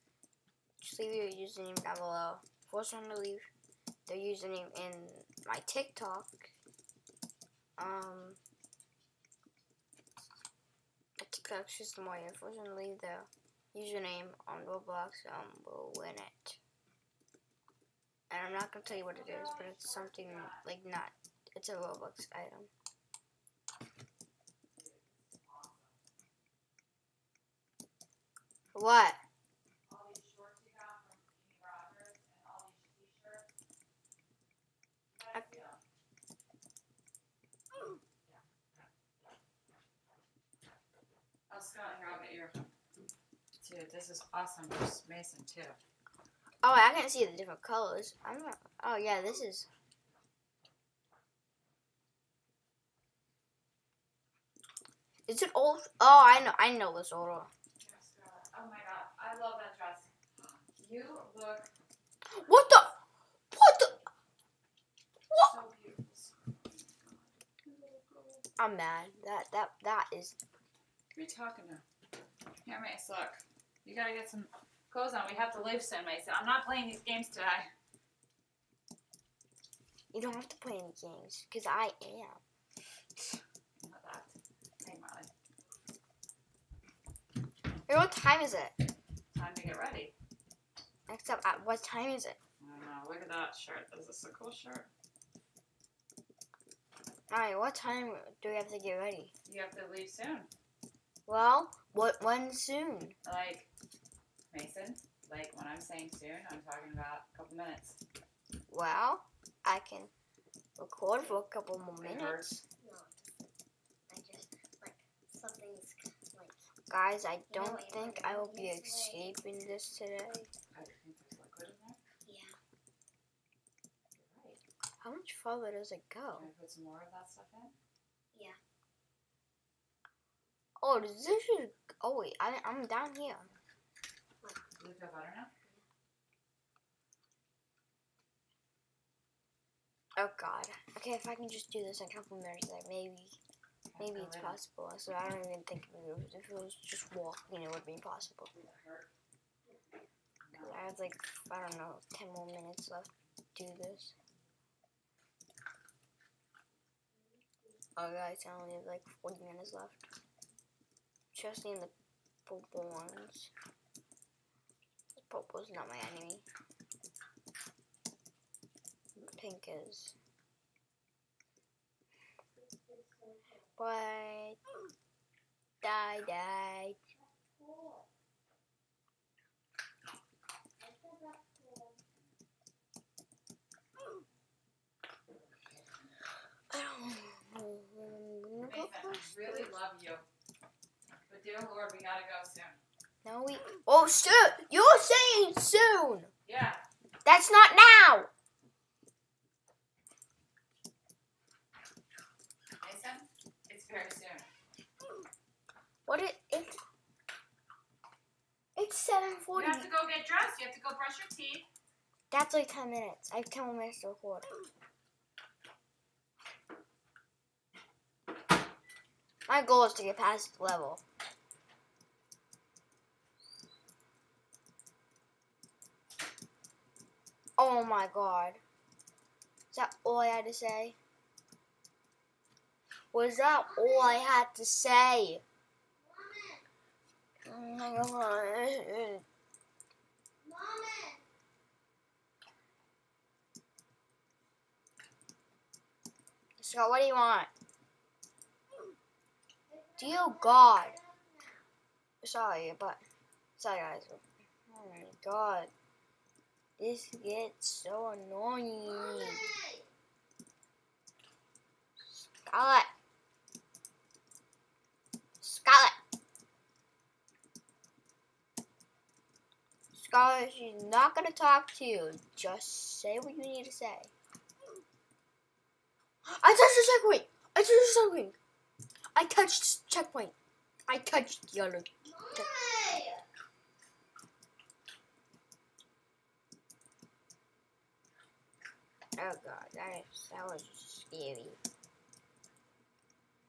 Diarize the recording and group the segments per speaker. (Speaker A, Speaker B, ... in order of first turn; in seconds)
Speaker A: 0.8-3.5, 4.0-6.4, 7.8-8.4, 11.2-16.6, 18.3-22.7, 28.7-29.2, 46.6-49.7, 55.2-57.5, 62.3-63.0, 63.5-64.0, 68.6-70.4, 80.1-82.4, 87.9-88.8, 91.1-92.4, 97.3-99.3, 101.2-103.2, 108.7-110.1, 110.8-112.6, 116.9-120.5, 125.0-126.5, 130.8-133.5, 140.2-143.3, 144.0-148.5, 150.6-154.1, 157.9-160.0, 161.3-161.9, 162.4-163.5, 165.2-166.4, 169.3-170.1, 173.8-174.6, 175.8-177.0, 186.7-189.7, 193.2-196.3, 197.2-198.3, 206.1-206.8, 208.8-209.9, 212.3-214.5, 219.5-221.0, 227.6-228.6, 229.7-231.0, 233.1-235.4, 237.4-239.2, 246.6-247.5, 250.0-250.9, 252.2-253.0, 253.6-255.7, 256.8-259.5, 262.1-262.9, 265.4-265.9, 269.9-274.1, 276.2-278.4, 279.1-280.3, 280.9-282.5, 289.2-291.6
Speaker B: 18.8-20.6, 24.7-26.0, 29.9-33.5, 35.1-35.8, 41.5-42.7, 43.6-45.8, 57.8-61.7, 65.3-68.4, 71.1-71.8, 72.6-77.7, 83.8-85.3, 89.3-90.1, 92.6-94.9, 99.4-100.5, 103.2-103.7, 104.5-108.0, 112.0-112.6, 120.7-122.0, 124.1-124.6, 126.3-127.8, 134.8-135.5, 143.9-144.6, 148.5-149.1, 150.4-150.9, 185.3-186.1, 188.6-190.2, 191.3-192.8, 196.4-196.8, 202.8-204.5, 209.5-211.7
Speaker C: 112.8-113.3, 114.1-116.7, 117.5-119.4, 122.2-122.5, 157.1-157.7, 172.6-173.7, 177.3-178.0, 180.8-182.0, 233.5-234.3, 235.9-236.6, 240.4-241.2, 249.7-251.7, 258.8-259.9, 282.1-283.2